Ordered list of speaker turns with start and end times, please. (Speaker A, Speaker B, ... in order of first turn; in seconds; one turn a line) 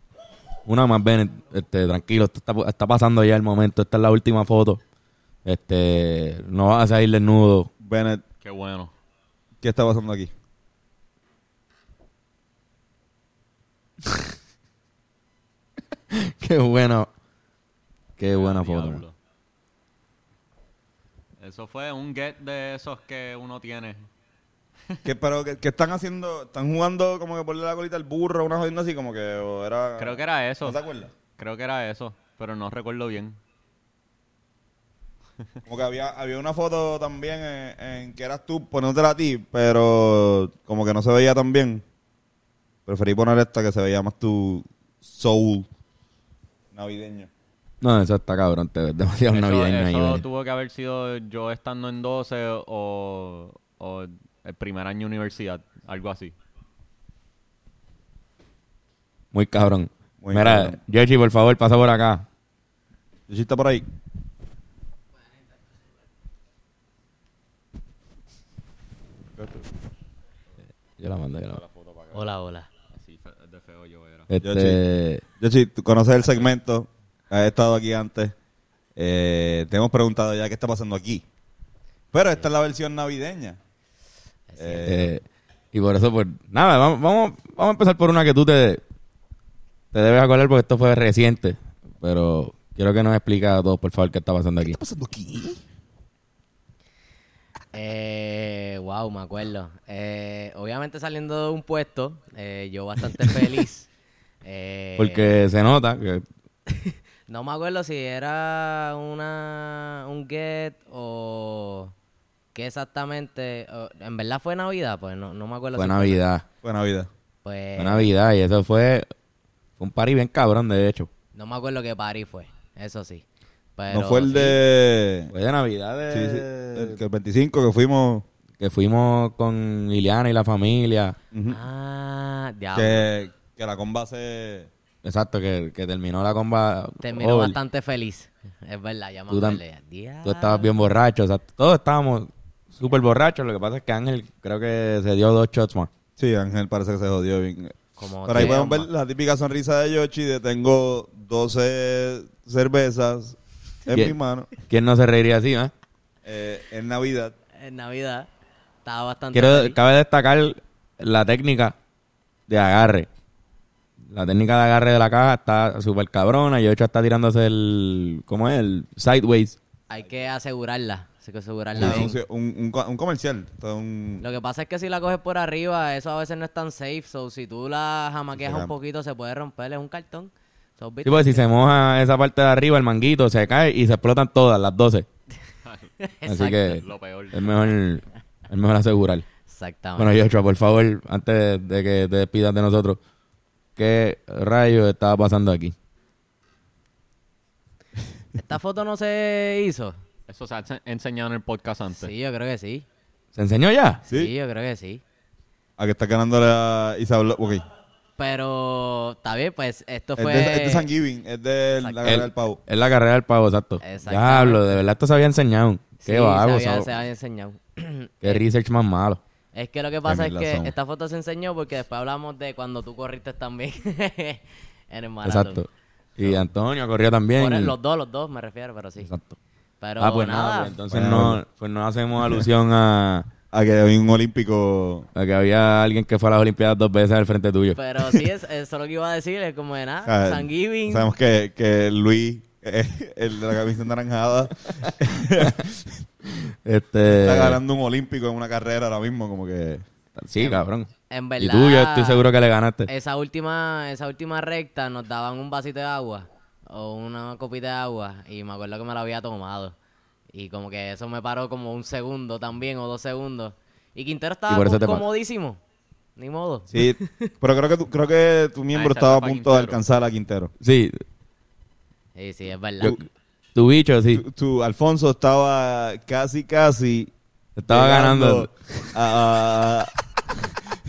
Speaker A: 0.7-4.8
Speaker A: 5.4-7.7
Speaker B: 7.8-8.2
Speaker C: 8.4-8.9
Speaker B: 9.6-10.3
Speaker A: 16.1-17.1
Speaker A: 18.2-19.0
Speaker C: 18.3-19.1
Speaker C: 21.4-24.1
Speaker B: 25.0-31.1
Speaker C: 30.0-30.8
Speaker C: 31.4-33.4
Speaker B: 35.7-41.8
Speaker B: 42.9-45.7
Speaker B: 46.7-47.3
Speaker A: 47.8-50.2
Speaker C: 49.3-56.3
Speaker A: 59.3-62.2
Speaker B: 60.2-60.8
Speaker B: 63.3-63.9
Speaker B: 69.4-69.7
Speaker A: 71.0-71.6
Speaker C: 71.5-72.3
Speaker D: 72.1-72.7
Speaker C: 72.9-74.3
Speaker A: 74.3-75.2
Speaker B: 74.4-74.8
Speaker B: 75.4-78.3
Speaker B: 79.0-81.2
Speaker B: 82.1-83.6
Speaker D: 84.5-84.9
Speaker B: 84.6-85.1
Speaker A: 84.8-88.8
Speaker A: 89.9-94.8
Speaker B: 94.6-95.6
Speaker D: 97.7-103.9
Speaker D: 104.4-105.3
Speaker A: 105.0-106.2
Speaker D: 106.7-111.9
Speaker D: 112.5-116.2
Speaker A: 115.7-116.4
Speaker B: 116.6-117.1
Speaker D: 117.4-118.1
Speaker A: 117.8-119.1
Speaker A: 119.8-121.1
Speaker D: 121.3-123.2
Speaker D: 123.8-124.6
Speaker B: 123.9-125.3
Speaker A: 125.3-127.0
Speaker B: 126.1-128.2
Speaker A: 128.6-131.2
Speaker B: 131.3-131.6
Speaker D: 131.5-133.1
Speaker B: 132.7-134.7
Speaker A: 135.0-137.6
Speaker D: 137.0-140.7
Speaker A: 139.3-139.6
Speaker A: 140.2-145.9
Speaker B: 146.2-154.5
Speaker D: 148.0-148.9
Speaker A: 154.7-155.7
Speaker B: 156.2-157.3
Speaker D: 157.6-158.3
Speaker D: 158.8-159.8
Speaker A: 159.3-161.7
Speaker A: 162.5-163.1
Speaker A: 164.1-169.6
Speaker D: 169.9-172.2
Speaker B: 171.8-174.2
Speaker A: 171.8-172.1
Speaker D: 174.2-181.5
Speaker B: 178.3-178.7
Speaker A: 181.0-185.1
Speaker C: 185.6-185.9
Speaker D: 186.0-186.7
Speaker A: 186.3-189.2
Speaker C: 186.6-187.6
Speaker D: 189.5-190.3
Speaker A: 190.0-193.0
Speaker A: 193.8-195.7
Speaker D: 198.4-199.9
Speaker C: 200.3-202.1
Speaker D: 201.9-202.8
Speaker A: 203.3-204.0
Speaker D: 204.1-205.0
Speaker B: 205.8-207.6
Speaker D: 208.2-210.9
Speaker B: 210.2-212.6
Speaker D: 211.8-212.1
Speaker A: 212.0-216.9
Speaker D: 213.8-214.7
Speaker D: 216.0-218.4
Speaker A: 218.2-219.2
Speaker D: 219.5-225.7
Speaker B: 220.1-220.7
Speaker A: 225.2-227.7
Speaker D: 227.3-229.1
Speaker A: 229.0-229.4
Speaker D: 229.8-230.8
Speaker A: 230.0-233.3
Speaker B: 230.9-231.4
Speaker B: 233.5-235.1
Speaker A: 235.2-238.2
Speaker D: 237.7-241.1
Speaker B: 240.1-245.9
Speaker A: 246.3-247.6
Speaker B: 247.1-249.8
Speaker A: 250.2-252.9
Speaker D: 251.1-252.3
Speaker D: 252.8-259.7
Speaker D: 260.3-265.6
Speaker A: 264.5-265.0
Speaker D: 266.2-267.3
Speaker B: 266.7-270.5
Speaker C: 268.7-269.8
Speaker A: 270.6-271.0
Speaker D: 272.1-273.0
Speaker A: 273.5-274.2
Speaker B: 274.1-277.1
Speaker A: 277.6-278.9
Speaker B: 277.7-279.9